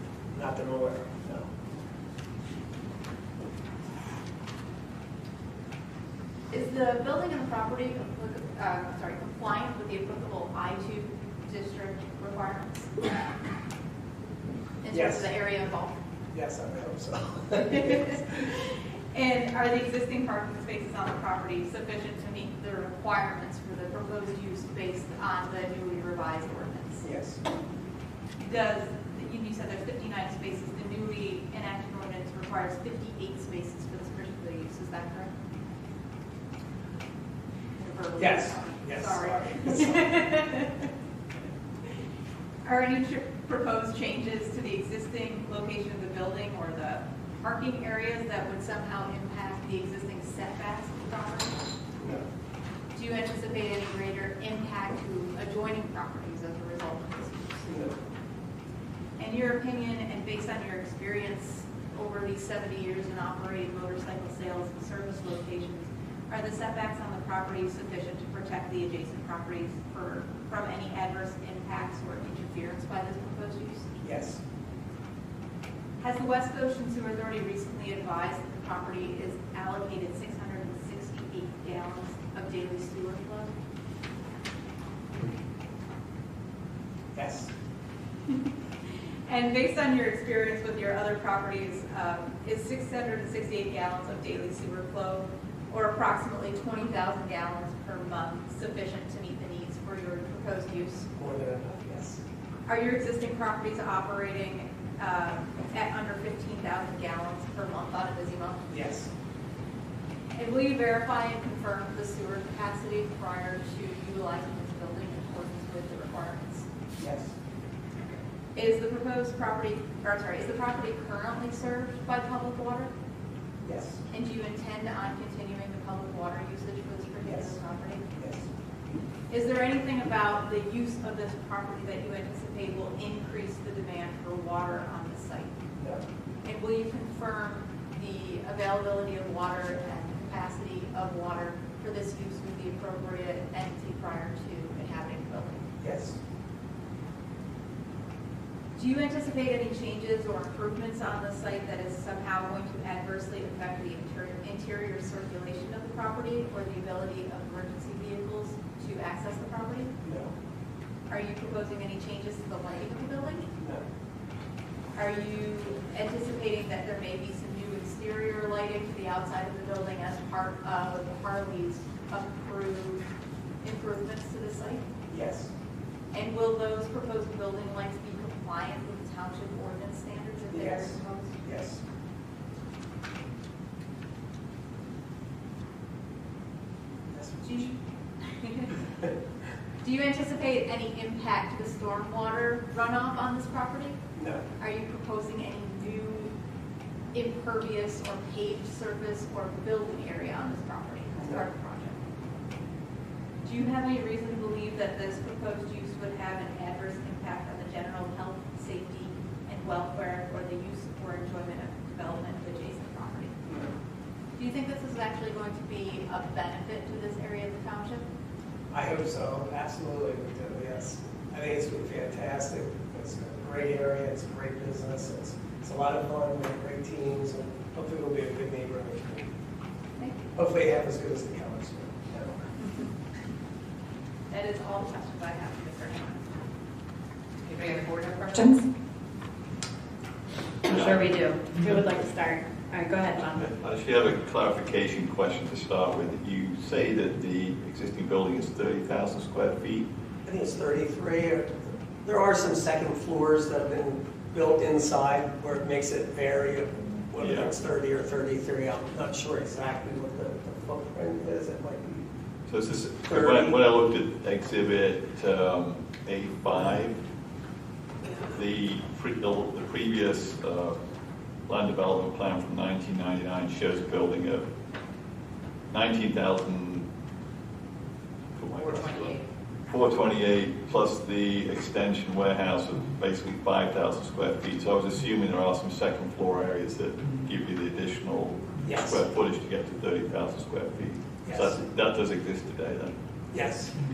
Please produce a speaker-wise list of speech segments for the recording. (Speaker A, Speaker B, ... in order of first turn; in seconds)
Speaker A: 0.3-1.5, 14.9-15.3, 16.3-18.3, 27.0-27.4, 38.2-40.2, 52.0-52.2, 57.7-58.0, 74.0-74.4, 87.2-87.5, 101.2-102.2, 108.7-109.1, 117.0-117.3, 123.6-124.0, 127.2-127.6, 128.2-128.5, 145.8-146.2, 160.0-160.3, 163.6-163.8, 175.1-175.5, 180.5-181.8, 187.1-187.7, 194.2-194.4, 201.2-201.4, 218.7-229.3, 230.4-232.5, 250.2-262.1, 263.1-263.6, 288.6-289.0, 291.2-291.6, 293.3-293.7
Speaker B: 6.5-12.9, 14.8-16.0, 17.7-27.0, 28.4-35.3, 37.8-40.9, 42.6-51.6, 52.9-57.7, 59.2-73.9, 76.0-83.5, 89.3-101.1, 102.7-108.8, 110.3-116.7, 118.5-122.9, 124.1-128.1, 129.3-135.5, 136.4-145.7, 148.8-159.9, 161.1-163.5, 165.0-173.0, 173.6-174.9, 176.1-181.4, 187.4-188.8, 189.8-194.0, 194.6-196.3, 197.1-202.0, 203.4-213.4, 214.4-218.1, 230.0-230.3, 234.3-236.4, 237.5-238.4
Speaker C: 237.6-238.6, 240.6-243.4
Speaker D: 240.7-241.7, 243.2-249.9, 257.2-257.5, 262.5-267.0, 268.1-270.8, 271.5-274.5, 275.7-276.9, 278.4-292.9